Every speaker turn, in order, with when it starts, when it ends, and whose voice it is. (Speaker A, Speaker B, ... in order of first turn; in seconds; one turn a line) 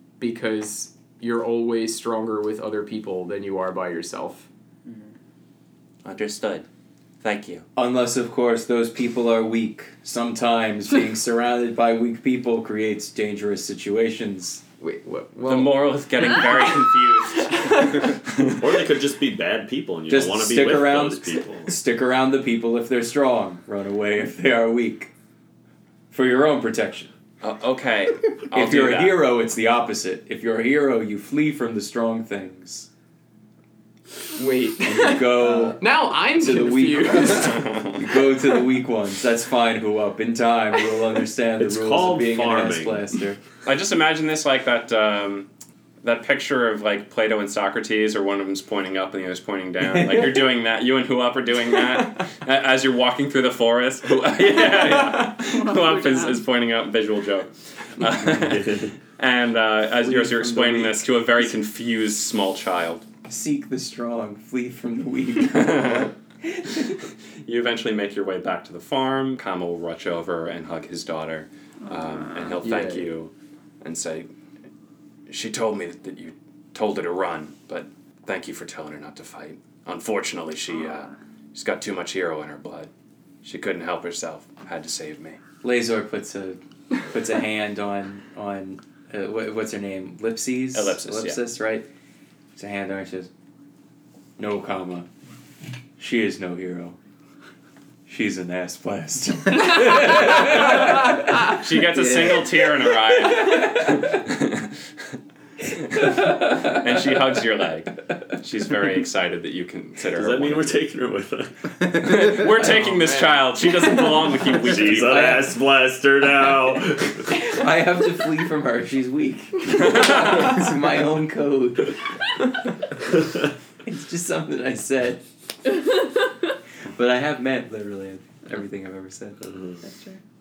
Speaker A: 0.2-4.5
Speaker B: 6.0-6.7
Speaker B: 7.2-7.6
Speaker C: 7.8-14.6
Speaker A: 14.8-15.9
Speaker B: 15.4-18.5
Speaker D: 18.6-21.7
Speaker C: 20.1-25.1
Speaker C: 26.1-27.1
Speaker B: 27.4-29.3
Speaker C: 28.5-32.9
Speaker A: 34.4-37.7
Speaker C: 34.8-43.4
Speaker B: 37.4-37.9
Speaker D: 41.6-43.1
Speaker B: 43.6-45.5
Speaker B: 46.0-63.0
Speaker C: 50.0-50.4
Speaker E: 55.2-56.4
Speaker D: 58.4-58.9
Speaker C: 60.0-60.9
Speaker C: 63.3-67.0
Speaker B: 65.4-66.1
Speaker B: 67.5-74.3
Speaker E: 71.9-72.6
Speaker A: 72.6-73.1
Speaker B: 75.3-82.9
Speaker B: 83.4-85.4
Speaker C: 85.6-91.9
Speaker B: 90.7-91.4
Speaker C: 92.5-93.3
Speaker C: 94.4-95.1
Speaker C: 96.0-97.0
Speaker C: 98.1-102.6
Speaker B: 101.3-104.7
Speaker B: 105.7-110.8
Speaker D: 110.1-111.7
Speaker B: 111.9-115.4
Speaker A: 112.7-113.4
Speaker D: 114.7-117.3
Speaker C: 114.7-115.6
Speaker C: 117.3-122.0
Speaker C: 123.8-125.2
Speaker C: 126.9-129.4
Speaker D: 129.4-129.8
Speaker E: 129.8-130.2